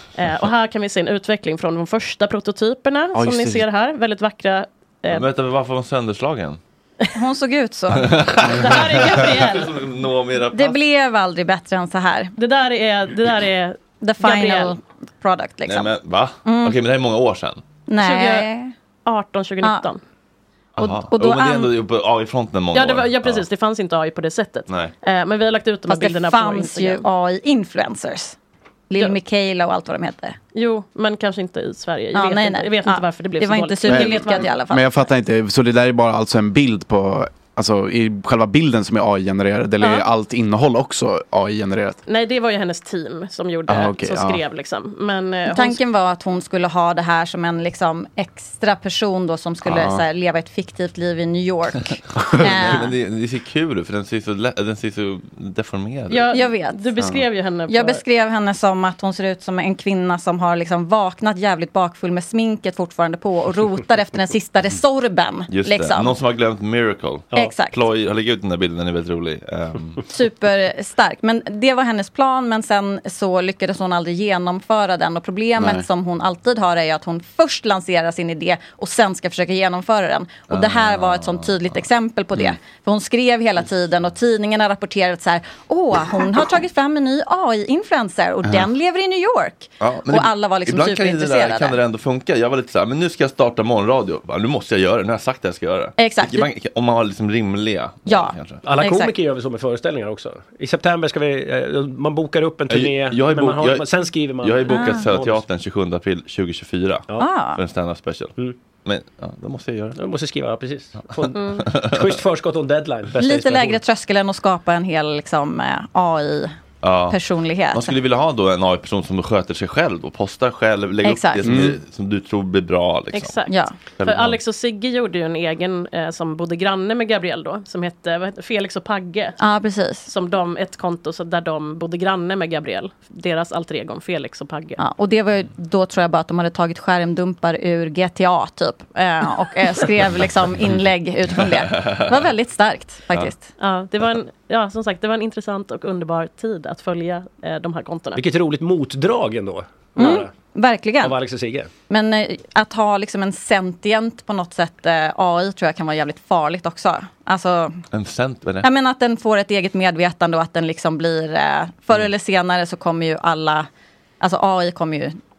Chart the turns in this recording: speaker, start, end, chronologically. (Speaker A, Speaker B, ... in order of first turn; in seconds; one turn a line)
Speaker A: 0.2-5.3
Speaker B: 3.1-3.7
Speaker C: 5.1-6.6
Speaker D: 7.2-8.2
Speaker C: 7.9-10.8
Speaker A: 8.5-9.8
Speaker D: 10.5-12.3
Speaker A: 12.4-14.7
Speaker D: 14.0-15.9
Speaker C: 15.7-17.6
Speaker D: 16.4-16.8
Speaker D: 17.9-18.7
Speaker A: 18.0-18.5
Speaker A: 19.1-20.0
Speaker D: 19.6-19.9
Speaker C: 20.8-23.4
Speaker D: 20.8-21.7
Speaker A: 22.7-27.0
Speaker C: 24.7-24.9
Speaker D: 25.9-28.4
Speaker D: 28.9-30.4
Speaker A: 30.5-34.6
Speaker D: 32.1-35.0
Speaker B: 33.9-42.0
Speaker A: 39.8-40.1
Speaker A: 42.1-45.8
Speaker B: 43.7-44.4
Speaker D: 45.5-52.9
Speaker B: 49.6-50.0
Speaker C: 52.3-56.3
Speaker A: 56.1-58.0
Speaker D: 56.3-57.0
Speaker B: 57.0-57.2
Speaker D: 57.7-66.2
Speaker C: 65.5-70.0
Speaker D: 67.3-67.8
Speaker D: 70.1-91.8
Speaker B: 75.6-75.8
Speaker C: 80.5-81.8
Speaker C: 89.8-98.6
Speaker D: 96.0-96.5
Speaker D: 98.1-99.2
Speaker E: 98.6-105.5
Speaker C: 102.7-103.9
Speaker C: 104.4-110.0
Speaker D: 104.7-105.1
Speaker D: 107.2-107.6
Speaker E: 110.0-113.8
Speaker A: 111.3-111.7
Speaker C: 111.4-112.0
Speaker D: 113.2-116.6
Speaker C: 116.8-124.4
Speaker D: 117.1-118.0
Speaker D: 121.0-121.7
Speaker B: 121.5-121.8
Speaker A: 123.1-129.4
Speaker D: 123.5-123.8
Speaker D: 129.4-130.1
Speaker A: 130.1-134.8
Speaker D: 134.8-143.5
Speaker A: 143.6-148.2
Speaker E: 148.2-150.3
Speaker D: 150.0-151.2
Speaker E: 151.0-151.7
Speaker D: 151.9-157.8
Speaker C: 157.9-158.7
Speaker D: 158.6-163.7
Speaker D: 164.2-165.2